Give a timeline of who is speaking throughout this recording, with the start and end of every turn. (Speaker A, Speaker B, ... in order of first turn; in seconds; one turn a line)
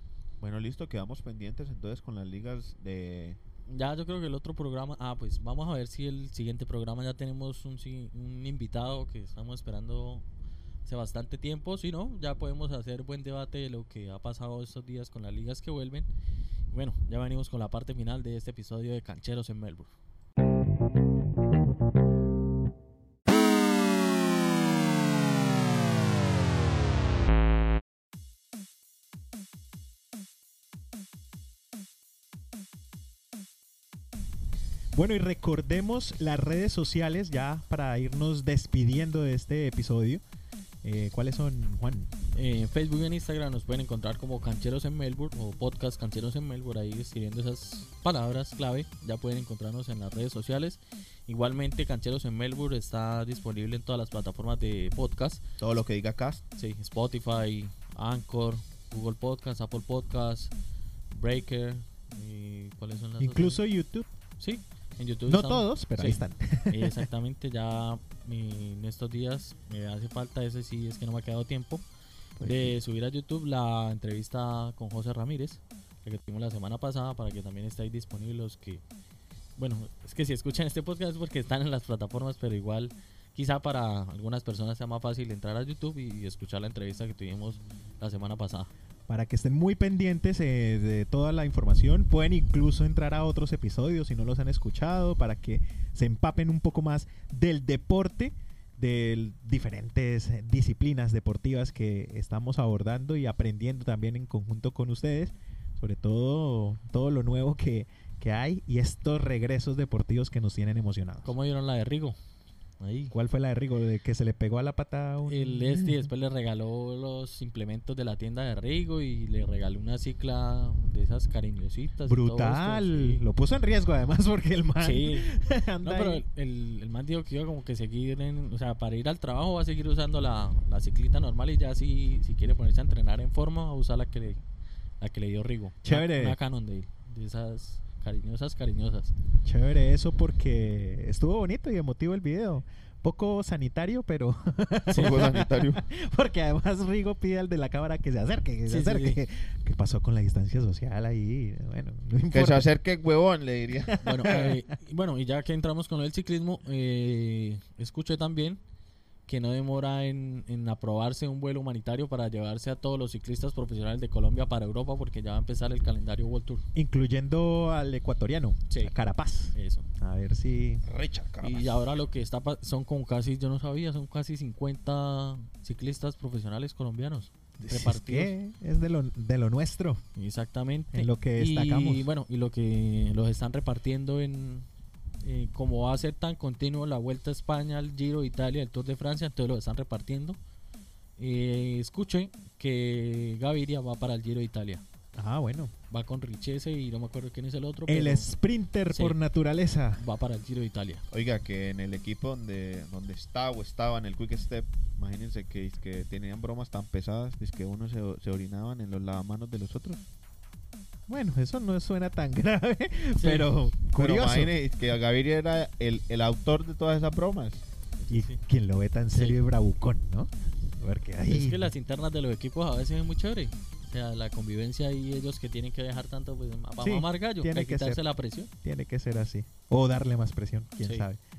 Speaker A: 0.4-3.4
Speaker B: 3.7-10.2
Speaker B: 10.8-16.1
Speaker B: 16.7-19.9
Speaker C: 34.9-40.2
Speaker C: 40.8-42.1
Speaker B: 42.3-55.4
Speaker A: 55.6-56.4
Speaker B: 56.6-60.5
Speaker B: 61.1-63.6
Speaker C: 63.2-64.1
Speaker B: 64.4-71.8
Speaker C: 65.3-67.1
Speaker C: 72.4-72.8
Speaker B: 72.4-78.8
Speaker B: 79.6-88.7
Speaker C: 89.1-111.3
Speaker B: 111.2-112.2
Speaker B: 112.8-113.1
Speaker C: 113.1-116.1
Speaker B: 115.2-123.2
Speaker C: 122.1-126.2
Speaker B: 124.8-134.4
Speaker B: 135.0-139.2
Speaker C: 135.8-136.4
Speaker C: 139.4-152.7
Speaker B: 144.9-145.2
Speaker A: 144.9-145.8
Speaker B: 148.7-149.2
Speaker A: 152.3-154.5
Speaker C: 153.9-154.5
Speaker B: 154.0-158.6
Speaker B: 159.3-166.6
Speaker C: 166.8-170.8
Speaker B: 169.5-169.9
Speaker A: 170.8-171.8
Speaker B: 171.4-178.3
Speaker C: 177.6-180.0
Speaker B: 180.2-184.7
Speaker C: 180.9-182.1
Speaker B: 185.2-190.4
Speaker B: 191.2-194.8
Speaker C: 195.2-195.7
Speaker B: 195.9-198.3
Speaker C: 197.9-200.0
Speaker B: 198.9-199.2
Speaker B: 200.0-201.0
Speaker A: 201.1-210.1
Speaker C: 211.1-214.5
Speaker B: 213.2-213.5
Speaker A: 213.9-217.7
Speaker B: 218.1-218.4
Speaker C: 218.1-221.7
Speaker B: 219.1-219.4
Speaker B: 221.2-228.5
Speaker C: 226.8-228.0
Speaker C: 228.6-231.2
Speaker B: 230.8-231.1